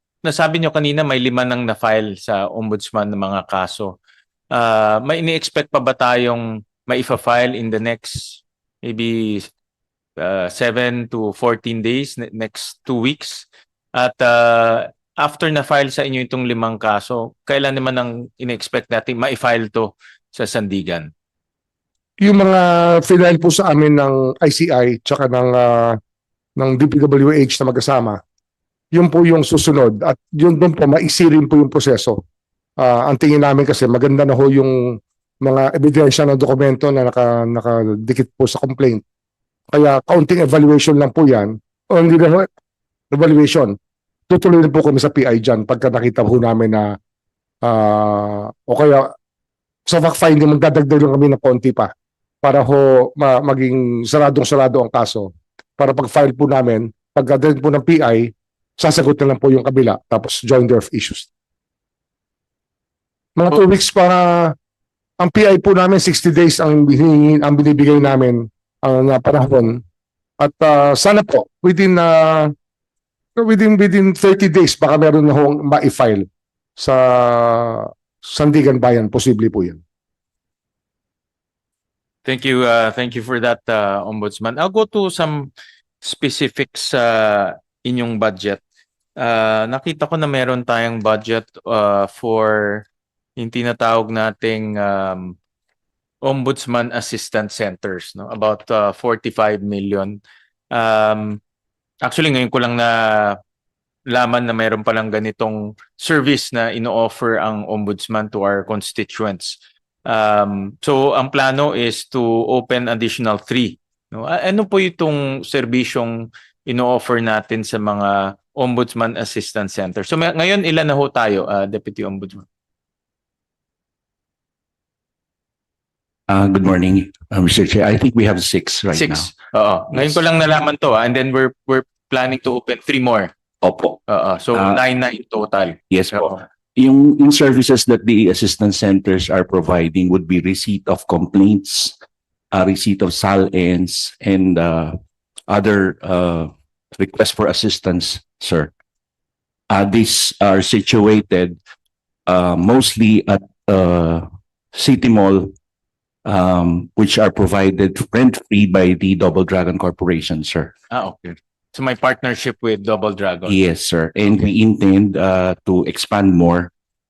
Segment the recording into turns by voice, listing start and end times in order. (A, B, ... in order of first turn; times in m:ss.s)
0:00.2-0:03.9 A
0:04.5-0:09.5 A
0:10.2-0:21.1 A
0:22.2-0:26.0 B
0:26.6-0:28.2 B
0:28.9-0:32.2 B
0:32.8-0:39.0 B
0:39.7-0:42.5 B
0:43.1-0:43.7 B
0:44.3-0:46.9 B
0:47.6-0:49.1 B
0:49.9-0:51.9 B
0:52.4-1:01.3 B
1:03.4-1:04.5 B
1:05.2-1:09.8 B
1:10.4-1:12.5 B
1:13.4-1:16.2 B
1:16.8-1:19.8 B
1:22.2-1:25.5 A
1:26.0-1:28.6 A
1:29.2-1:32.8 A
1:33.4-1:35.3 A
1:36.2-1:40.2 A
1:40.7-1:41.4 A
1:42.0-1:43.4 A
1:44.1-2:02.4 A
2:06.3-2:09.3 C
2:08.9-2:13.3 A
2:13.6-2:14.0 C
2:14.1-2:16.4 A
2:14.5-2:14.8 C
2:15.9-2:22.0 C
2:22.5-2:25.0 C
2:25.5-2:28.7 C
2:29.7-2:31.6 C
2:32.3-2:35.5 C
2:36.2-2:40.7 C
2:40.9-2:43.6 A
2:43.5-2:46.7 C